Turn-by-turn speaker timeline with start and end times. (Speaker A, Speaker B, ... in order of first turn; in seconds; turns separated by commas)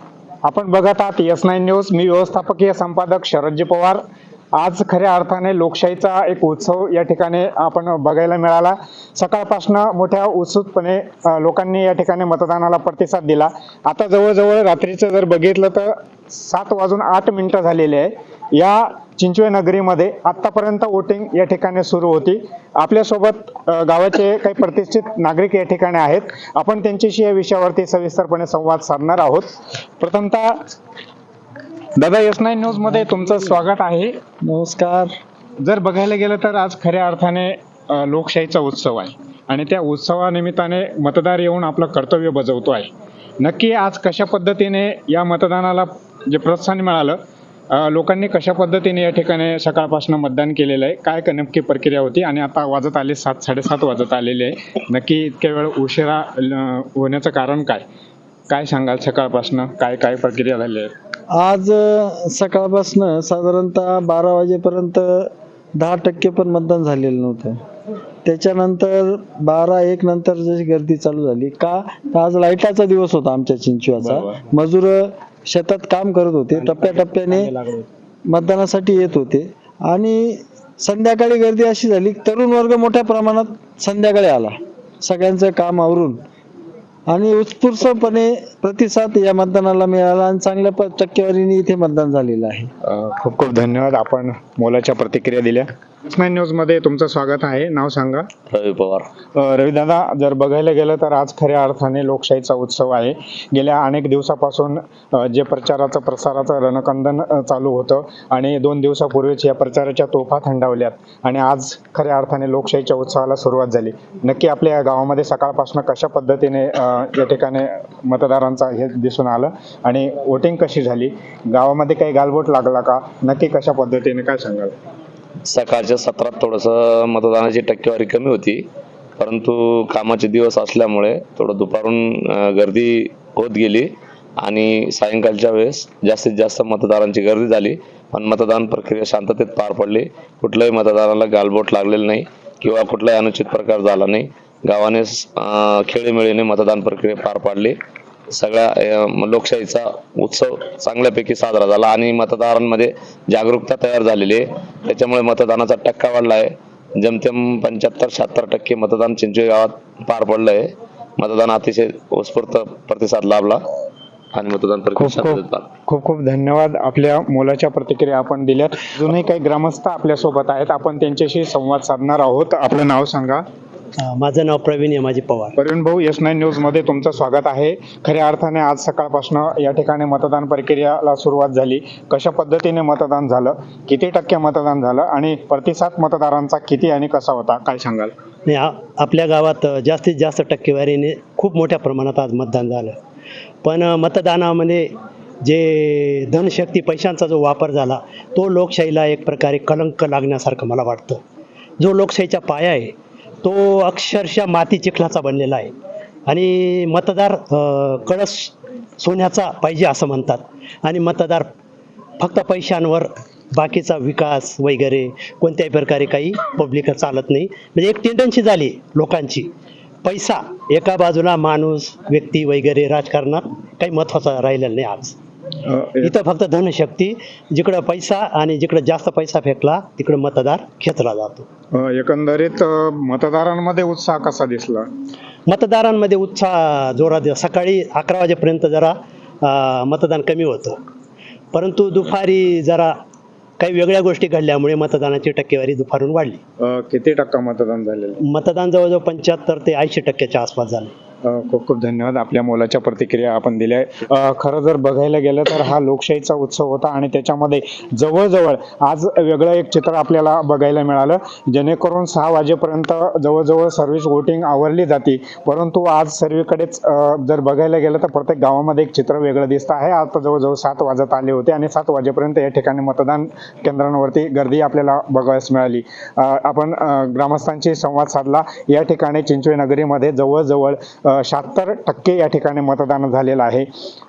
Speaker A: 0.4-4.0, Speaker A: 4.6-30.6, Speaker A: 32.0-34.1, Speaker B: 34.4-35.1, Speaker A: 35.6-42.9, Speaker A: 43.4-47.2, Speaker A: 47.7-57.8, Speaker A: 58.5-60.9, Speaker B: 61.3-67.6, Speaker B: 68.2-77.5, Speaker C: 76.5-77.9, Speaker B: 78.3-86.2, Speaker B: 87.1-92.7, Speaker A: 92.8-98.3, Speaker D: 98.5-99.1, Speaker A: 99.3-124.7, Speaker D: 125.5-128.6, Speaker D: 129.2-133.9, Speaker D: 134.4-147.8, Speaker D: 148.3-163.6, Speaker D: 164.3-165.7, Speaker A: 165.0-173.4, Speaker C: 174.0-175.6, Speaker A: 175.6-188.1, Speaker C: 188.5-192.9, Speaker C: 193.6-194.8, Speaker C: 195.4-201.2, Speaker C: 201.8-205.7, Speaker C: 206.3-211.4, Speaker C: 212.2-219.5, Speaker C: 220.0-225.2, Speaker A: 225.6-226.1, Speaker C: 226.0-231.5, Speaker A: 231.7-234.8, Speaker C: 235.5-240.8, Speaker C: 241.5-242.9, Speaker C: 243.6-246.4, Speaker A: 246.6-248.2, Speaker C: 248.3-250.9, Speaker A: 251.2-283.7